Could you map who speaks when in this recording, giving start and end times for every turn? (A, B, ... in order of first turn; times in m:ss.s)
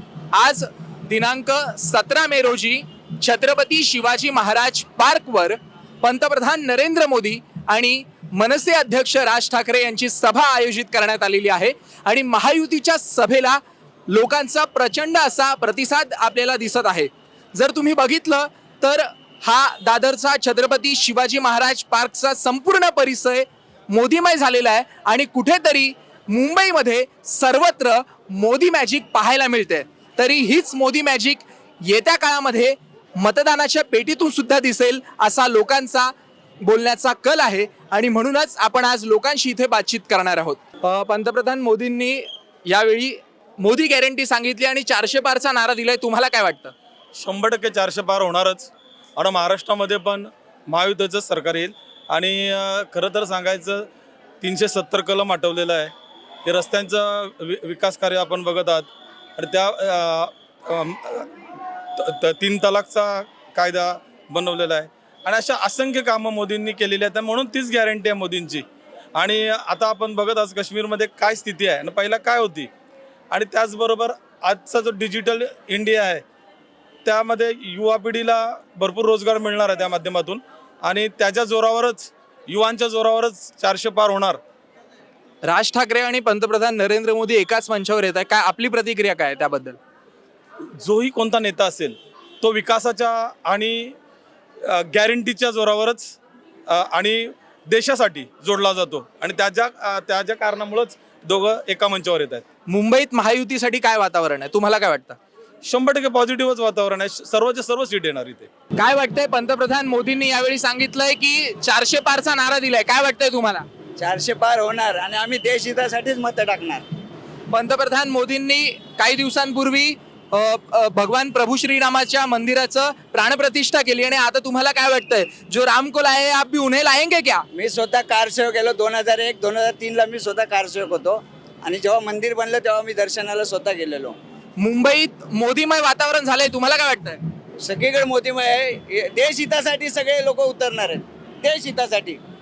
0:00.3-0:46.7 A
0:47.1-0:53.9 B
0:54.4-0:55.9 B
0:56.4-1:01.4 B
1:02.0-1:12.7 B
1:13.3-1:16.2 B
1:17.0-1:24.4 B
1:25.4-1:29.8 A
1:30.8-1:34.0 B
1:34.6-1:36.2 B
1:36.7-1:42.4 B
1:42.7-1:45.2 A
1:45.6-1:48.5 B
1:48.8-1:53.6 A
1:54.0-1:56.8 C
1:57.5-2:07.4 A
2:07.5-2:14.2 C
2:14.6-2:17.2 A
2:17.6-2:22.2 C